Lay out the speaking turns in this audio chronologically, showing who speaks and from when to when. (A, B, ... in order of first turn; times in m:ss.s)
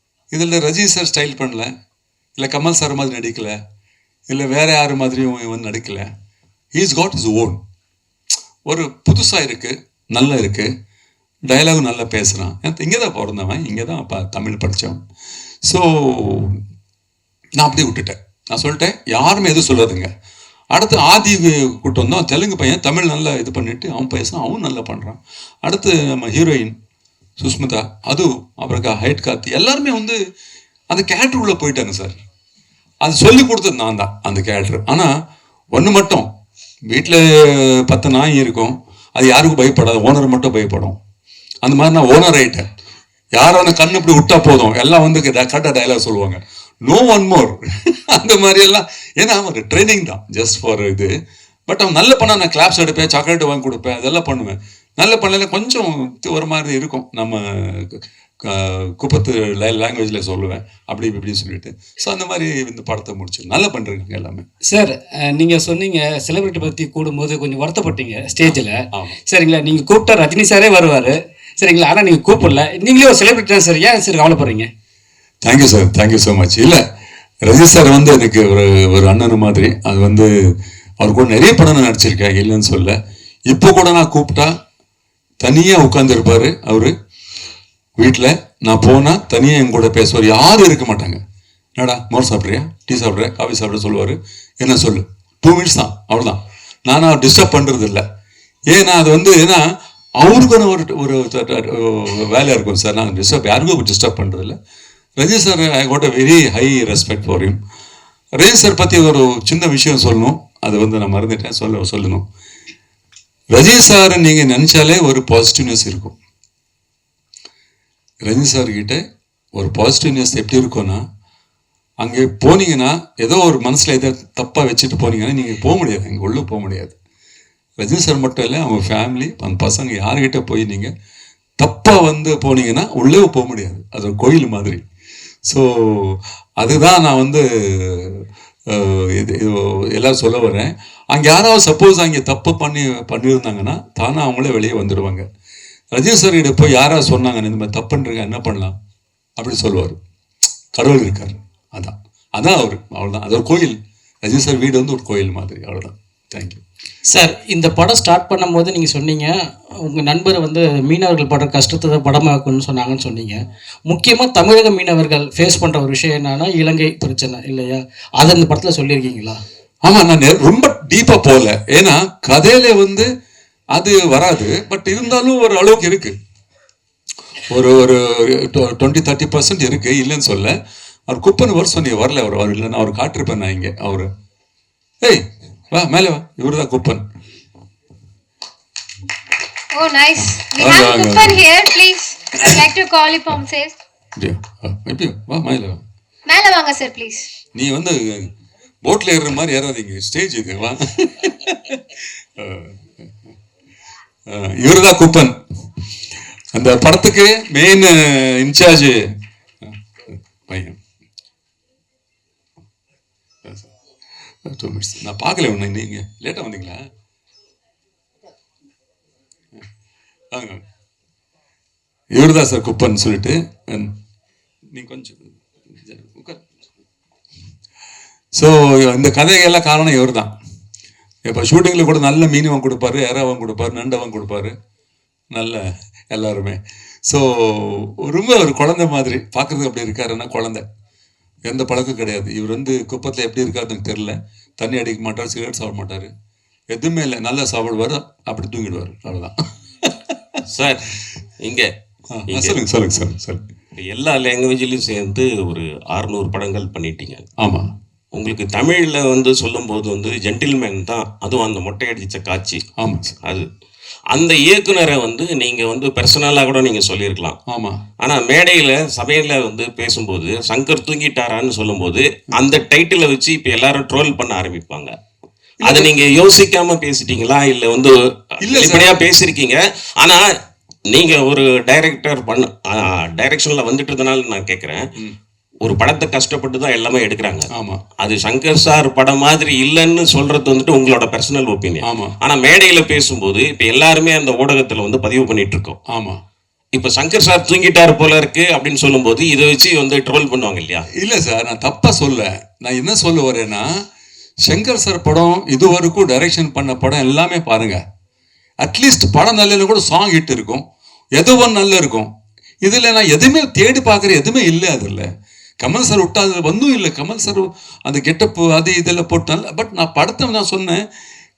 0:00.3-0:01.7 A
0:02.4-0:03.6 A
0:04.3-0:06.1 A
0:06.7-0:07.6 A
0:08.7-0:10.7 A
0:11.5-0:15.0 A
0:15.6-0:16.6 A
0:17.6-0:20.1 A
0:20.7-0:26.7 A
0:27.4-0:30.2 A
0:30.9-0:32.2 A
0:33.0-0:35.1 A
0:35.7-0:36.3 A
0:36.9-0:41.0 A
0:41.6-0:42.6 A
0:43.4-0:51.1 A
0:51.7-1:04.4 A
1:04.7-1:14.7 B
1:08.4-1:09.2 A
1:15.4-1:16.8 A
1:17.4-1:20.3 A
1:21.0-1:23.0 A
1:23.5-1:24.5 A
1:25.4-1:26.9 A
1:28.0-1:31.2 A
1:31.8-1:38.0 A
1:38.7-1:39.6 A
1:40.2-1:44.6 A
1:45.2-1:47.6 A
1:48.4-1:52.2 A
1:53.5-1:56.1 A
1:58.2-1:59.0 A
1:59.6-2:01.0 A
2:02.0-2:06.9 A
2:07.8-2:10.9 A
2:11.6-2:14.8 A
2:15.5-2:25.2 A
2:25.9-2:28.7 A
2:29.4-2:30.0 A
2:30.7-2:36.6 A
2:37.1-2:39.4 C
2:39.9-2:49.4 C
2:49.8-2:53.1 A
2:53.8-2:56.1 A
2:57.5-3:00.5 A
3:01.1-3:04.1 A
3:05.0-3:07.0 A
3:09.7-3:13.7 D
3:10.4-3:11.4 A
3:14.2-3:15.8 A
3:16.3-3:17.3 D
3:17.6-3:18.3 A
3:18.8-3:22.9 A
3:24.3-3:25.3 A
3:26.6-3:29.0 A
3:29.6-3:30.8 A
3:34.5-3:36.9 A
3:40.3-3:40.6 A
3:42.1-3:43.9 A
3:44.7-3:46.5 A
3:48.4-3:50.3 A
3:51.2-3:54.5 A
3:55.3-4:00.6 A
4:01.5-4:06.1 A
4:06.7-4:10.4 A
4:10.5-4:11.7 E
4:12.1-4:13.4 A
4:12.3-4:12.6 E
4:13.8-4:17.2 E
4:17.4-4:17.7 A
4:18.1-4:22.6 E
4:22.8-4:23.2 A
4:24.1-4:27.4 E
4:27.5-4:27.8 A
4:28.0-4:34.9 E
4:35.6-4:36.0 A
4:35.6-4:40.2 E
4:38.4-4:39.0 A
4:40.9-4:44.8 E
4:45.6-4:47.5 E
4:47.5-4:47.8 A
4:48.0-4:55.8 E
4:51.8-4:52.2 A
4:55.9-4:56.2 A
4:56.7-5:00.9 E
5:01.0-5:03.6 A
5:04.4-5:07.8 A
5:08.6-5:10.6 A
5:11.2-5:12.1 A
5:12.6-5:15.1 A
5:15.6-5:20.8 A